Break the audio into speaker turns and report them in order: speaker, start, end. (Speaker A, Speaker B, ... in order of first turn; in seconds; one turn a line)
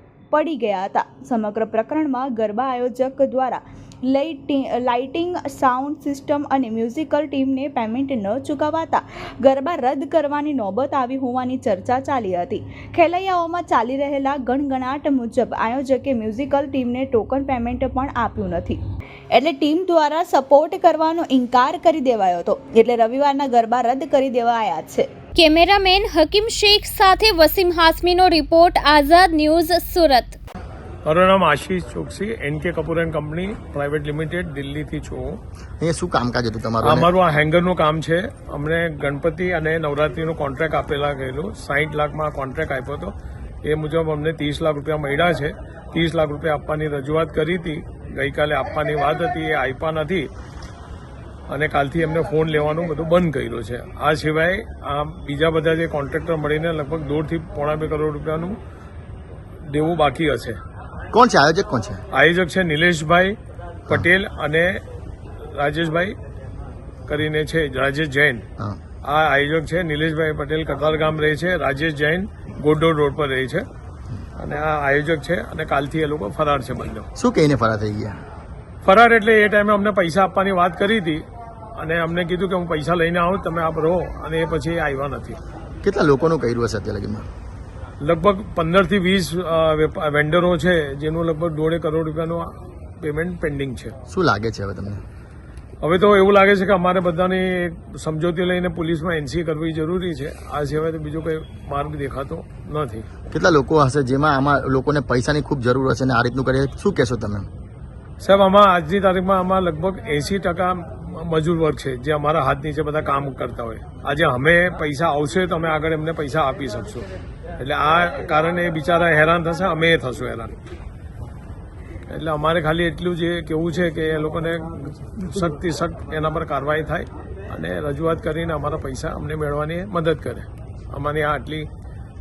Speaker A: 0.3-18.8
Speaker A: 19.3-25.1
Speaker B: 25.3-30.4
Speaker C: 31.0-35.4
Speaker D: 35.8-37.1
Speaker C: 36.8-50.3
Speaker C: 51.5-58.6
Speaker C: 59.7-60.6
Speaker D: 61.1-62.0
Speaker C: 62.1-63.4
Speaker C: 63.9-64.8
Speaker C: 65.5-66.2
Speaker C: 67.1-68.4
Speaker C: 69.0-73.6
Speaker C: 74.4-77.1
Speaker D: 77.1-78.2
Speaker C: 78.8-81.2
Speaker C: 81.8-85.4
Speaker D: 85.8-87.2
Speaker C: 88.0-93.9
Speaker D: 94.1-95.0
Speaker C: 95.8-103.1
Speaker D: 103.3-107.5
Speaker C: 108.2-117.0
Speaker C: 117.6-120.5
Speaker C: 122.1-131.7